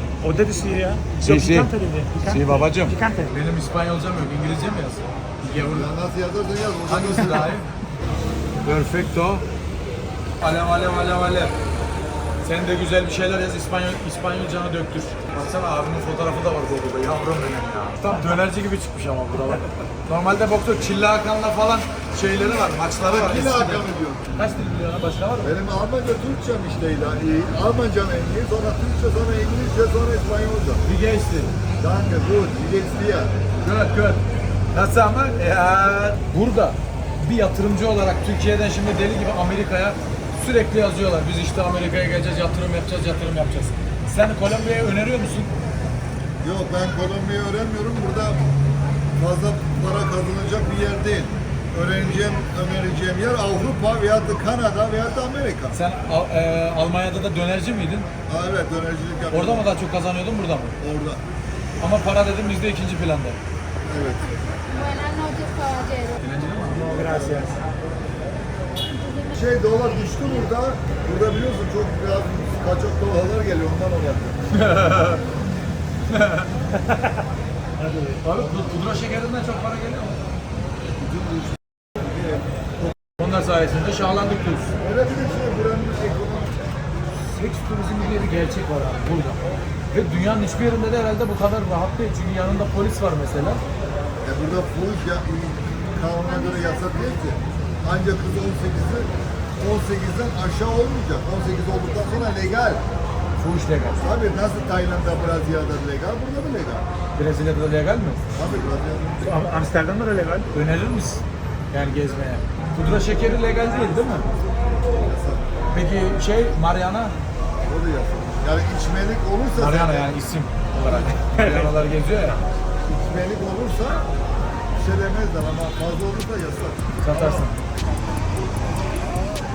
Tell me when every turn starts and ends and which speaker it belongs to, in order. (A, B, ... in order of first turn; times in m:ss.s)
0:00.2-0:03.3 A
0:01.2-0:01.7 B
0:02.2-0:05.9 B
0:05.6-0:07.6 C
0:06.9-0:07.7 B
0:08.6-0:09.4 B
0:10.4-0:11.6 B
0:12.4-0:25.5 B
0:22.6-0:24.5 C
0:25.4-0:30.8 C
0:30.8-0:31.6 B
0:31.8-0:33.3 C
0:33.6-0:45.5 B
0:46.4-0:48.4 C
0:49.2-0:55.8 C
0:55.7-0:58.1 B
0:58.3-0:59.7 C
0:59.3-1:00.8 B
1:00.8-1:01.2 C
1:01.8-1:03.4 B
1:03.8-1:04.2 C
1:04.7-1:06.2 D
1:06.2-1:07.1 B
1:06.7-1:07.6 A
1:06.8-1:07.5 C
1:08.9-1:09.4 D
1:09.3-1:14.4 C
1:14.5-1:15.3 B
1:16.1-1:16.5 B
1:17.8-1:18.2 A
1:18.2-1:20.2 B
1:21.0-1:21.5 C
1:23.2-1:24.7 B
1:24.8-1:26.5 C
1:27.3-1:33.6 B
1:34.2-1:42.8 C
1:36.4-1:36.9 D
1:43.4-1:44.0 B
1:43.9-1:46.9 C
1:47.2-1:48.2 B
1:48.4-1:49.2 C
1:49.2-1:50.5 A
1:50.5-1:54.3 B
1:54.9-1:55.4 C
1:55.7-1:57.2 B
1:57.7-2:00.1 C
1:59.6-2:02.4 B
2:00.9-2:01.6 C
2:02.9-2:04.0 C
2:04.8-2:07.4 C
2:07.0-2:07.6 B